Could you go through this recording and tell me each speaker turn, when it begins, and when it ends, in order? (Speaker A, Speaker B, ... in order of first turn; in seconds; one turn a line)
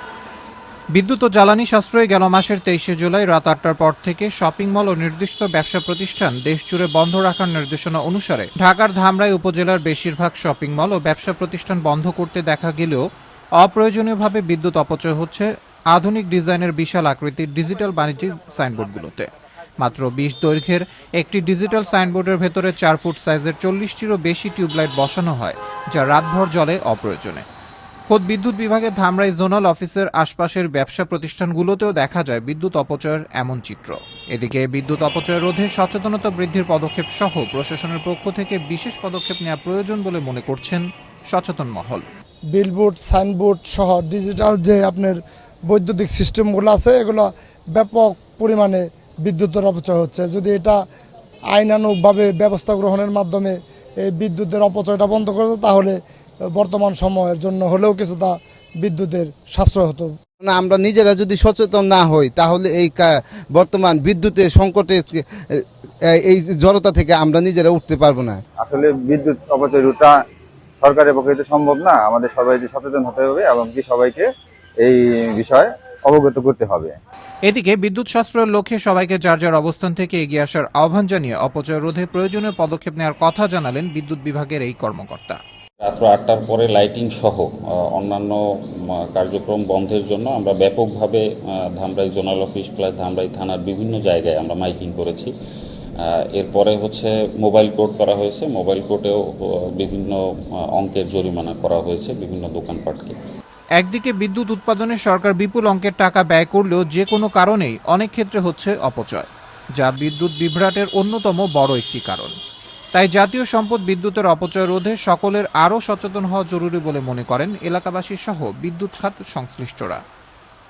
Speaker A: 0.9-13.0
Speaker A: 13.6-27.4
Speaker A: 28.1-42.0
Speaker B: 42.5-45.2
Speaker B: 45.7-50.8
Speaker B: 51.5-56.0
Speaker B: 56.5-60.1
Speaker C: 60.4-68.4
Speaker D: 68.6-70.1
Speaker D: 70.8-74.2
Speaker D: 74.8-76.9
Speaker A: 77.5-85.4
Speaker E: 85.8-95.3
Speaker E: 96.0-103.2
Speaker A: 103.8-109.3
Speaker A: 109.8-112.4
Speaker A: 112.9-120.0